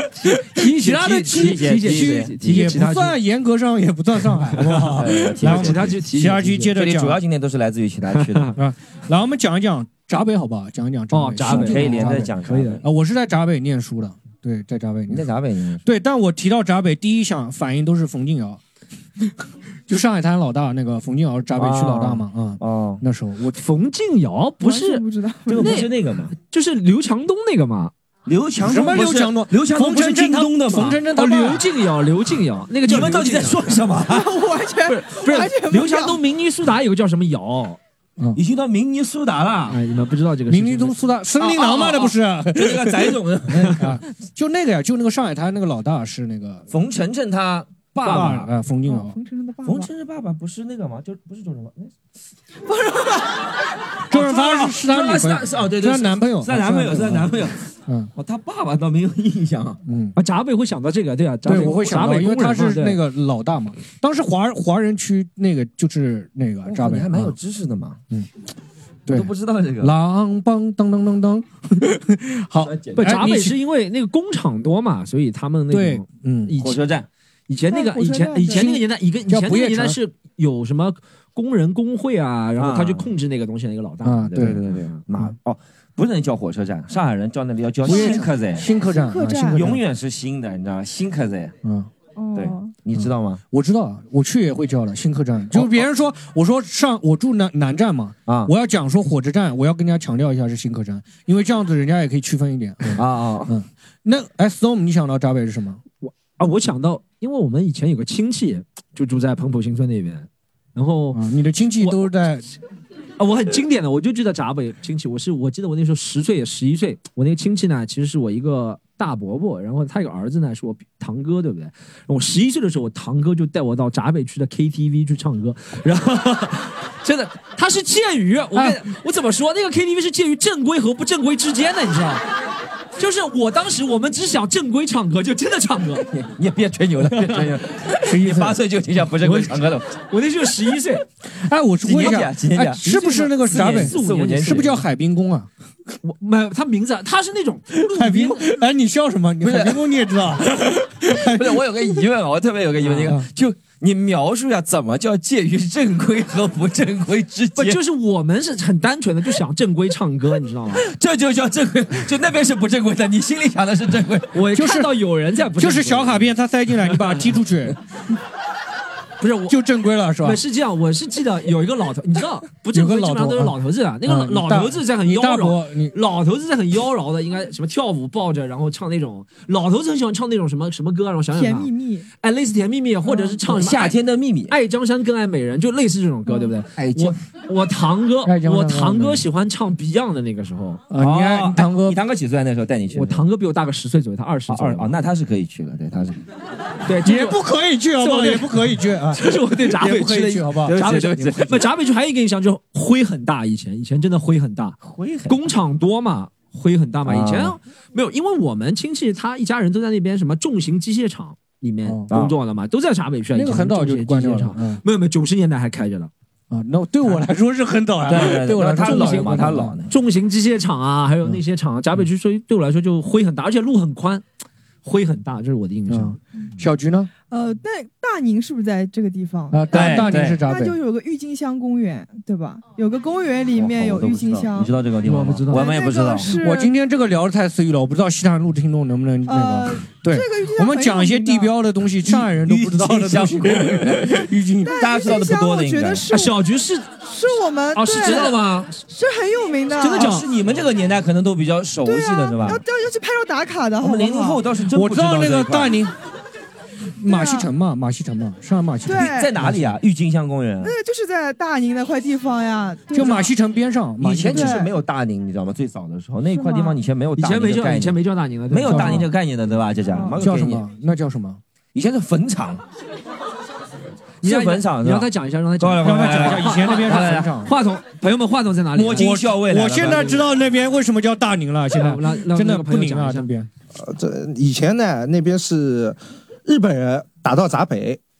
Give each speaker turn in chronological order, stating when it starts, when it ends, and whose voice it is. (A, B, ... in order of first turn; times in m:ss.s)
0:00.2-0:03.2 A
0:00.2-0:07.2 B
0:01.3-0:02.7 C
0:04.8-0:06.8 A
0:04.9-0:06.0 C
0:06.8-0:08.5 C
0:08.1-0:08.5 A
0:08.6-0:15.3 B
0:11.1-0:12.8 A
0:11.4-0:12.8 C
0:15.1-0:15.8 C
0:15.8-0:18.6 B
0:19.9-0:23.6 B
0:21.6-0:23.0 C
0:23.5-0:25.0 A
0:24.6-0:25.8 D
0:25.5-0:26.3 C
0:25.6-0:25.9 A
0:26.4-0:27.9 A
0:28.2-0:31.0 C
0:28.6-0:31.6 B
0:31.1-0:33.8 A
0:32.8-0:34.3 C
0:34.1-0:36.2 D
0:34.9-0:37.8 A
0:38.4-0:39.8 C
0:39.7-0:40.9 A
0:40.5-0:46.7 B
0:41.4-0:43.9 C
0:46.7-0:48.5 C
0:48.0-0:48.4 A
0:48.0-0:49.2 B
0:48.8-0:49.9 D
0:49.6-0:51.9 C
0:54.1-0:58.1 B
0:54.1-0:57.6 C
0:58.2-0:59.8 C
0:59.8-1:00.2 B
1:00.2-1:03.0 A
1:01.4-1:07.3 B
1:06.6-1:08.0 C
1:09.1-1:13.6 B
1:09.1-1:09.9 C
1:12.6-1:13.3 C
1:13.0-1:16.8 A
1:15.7-1:16.5 B
1:16.6-1:17.1 C
1:17.5-1:24.7 A
1:17.7-1:18.7 D
1:18.5-1:20.0 B
1:22.6-1:23.1 C
1:24.0-1:24.6 B
1:24.3-1:28.7 C
1:27.8-1:29.8 B
1:27.9-1:28.2 D
1:28.8-1:29.7 D
1:29.5-1:31.5 C
1:31.6-1:31.9 B
1:32.2-1:32.7 D
1:32.3-1:33.4 C
1:32.9-1:45.8 B
1:35.5-1:35.8 C
1:42.9-1:43.6 C
1:46.0-1:52.1 A
1:51.1-1:52.5 B
1:53.2-2:12.2 A
2:08.5-2:08.8 B
2:13.0-2:16.0 A
2:16.1-2:19.9 C
2:17.1-2:17.5 A
2:18.0-2:18.6 B
2:19.2-2:21.0 A
2:21.4-2:25.5 B
2:21.8-2:22.8 C
2:22.8-2:24.7 A
2:23.5-2:24.7 C
2:26.0-2:28.6 A
2:27.9-2:31.6 B
2:29.4-2:29.8 C
2:31.1-2:37.8 C
2:32.8-2:33.1 A
2:32.9-2:33.3 B
2:37.6-2:40.8 A
2:40.8-2:44.3 C
2:44.3-2:46.3 A
2:44.5-2:44.9 B
2:45.6-2:47.8 B
2:46.9-2:47.2 A
2:49.2-2:49.5 A
2:49.5-2:50.4 B
2:50.2-3:04.0 A
2:52.7-2:55.9 B
3:01.3-3:02.1 D
3:03.0-3:03.3 D
3:03.4-3:04.6 C
3:04.5-3:10.8 A
3:06.8-3:07.2 C
3:08.2-3:09.2 B
3:10.9-3:12.0 B
3:11.0-3:13.2 C
3:12.9-3:14.9 A
3:14.5-3:16.2 C
3:16.8-3:17.4 A
3:17.0-3:21.2 B
3:18.0-3:24.8 A
3:20.7-3:21.6 C
3:24.8-3:25.5 C
3:25.3-3:36.1 A
3:27.0-3:27.6 C
3:31.8-3:32.1 B
3:33.3-3:34.8 B
3:36.5-3:39.8 B
3:38.1-3:39.9 C
3:38.8-3:44.2 A
3:44.8-3:46.2 A
3:45.9-3:47.1 B
3:47.3-3:54.7 D
3:49.5-3:50.8 B
3:49.7-3:50.4 C
3:53.6-3:56.3 C
3:55.0-3:55.8 A
3:55.5-3:56.7 D
3:56.4-4:05.1 B
3:59.3-4:01.5 D
4:02.1-4:04.2 C
4:04.6-4:06.3 D
4:04.8-4:06.1 C
4:06.1-4:06.9 A
4:07.0-4:08.2 D
4:07.7-4:08.7 A
4:08.0-4:08.7 C
4:08.9-4:10.1 D
4:09.8-4:10.3 A
4:09.8-4:12.6 C
4:11.8-4:14.4 D
4:13.8-4:15.8 C
4:14.7-4:15.9 B
4:17.0-4:19.8 B
4:17.1-4:17.5 D
4:18.8-4:19.3 D
4:19.0-4:20.7 C
4:20.6-4:23.3 D
4:22.9-4:24.6 B
4:24.0-4:28.0 C
4:24.3-4:24.7 D
4:26.3-4:26.8 D
4:27.2-4:29.0 A
4:28.5-4:30.6 C
4:28.6-4:29.1 B
4:29.9-4:30.2 D
4:30.1-4:31.4 B
4:31.7-4:32.6 C
4:34.2-4:39.2 A
4:34.2-4:35.1 C
4:35.6-4:37.3 C
4:35.8-4:37.5 B
4:38.7-4:40.2 C
4:39.0-4:43.5 B
4:41.7-4:43.3 A
4:43.7-4:48.0 E